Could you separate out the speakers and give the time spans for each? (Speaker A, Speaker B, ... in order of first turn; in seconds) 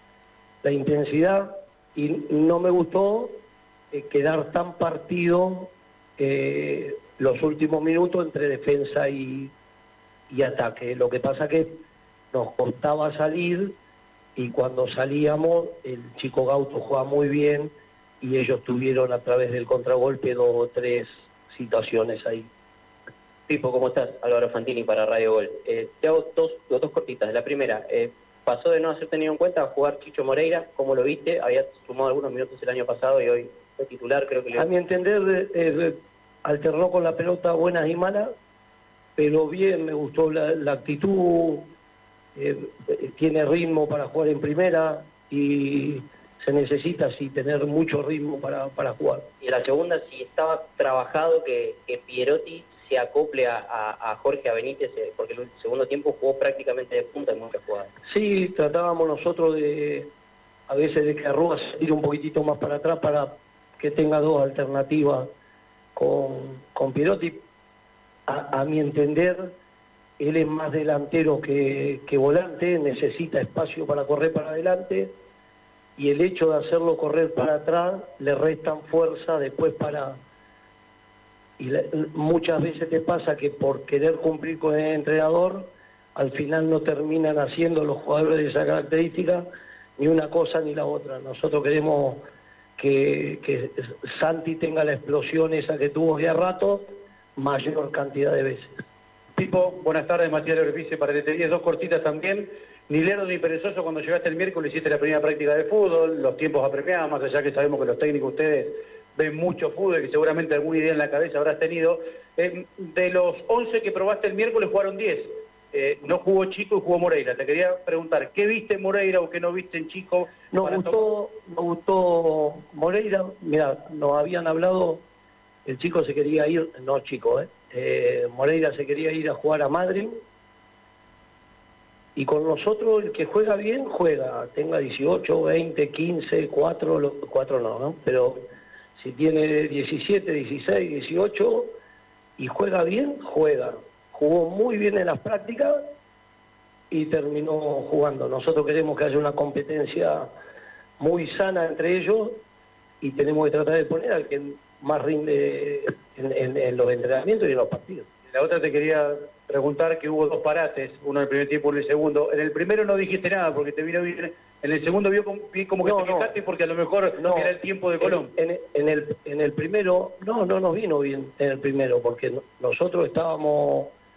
Speaker A: 0.6-3.4, 3.9-9.5, 10.3-11.8, 12.3-13.7, 14.3-22.5, 34.5-38.3, 39.2-41.7, 42.4-49.2, 58.1-60.1, 60.7-65.3, 65.9-67.4, 68.3-69.5, 70.2-75.1, 76.0-80.2, 81.6-89.4, 90.0-92.2, 92.8-98.8, 120.5-125.0, 125.7-130.1, 132.2-138.4, 138.9-141.7, 142.4-145.8, 146.9-150.3, 151.0-152.4, 153.0-158.1, 165.8-166.3, 167.2-173.9
Speaker B: 23.5-34.7, 49.4-57.9
Speaker C: 99.3-121.0, 158.3-168.3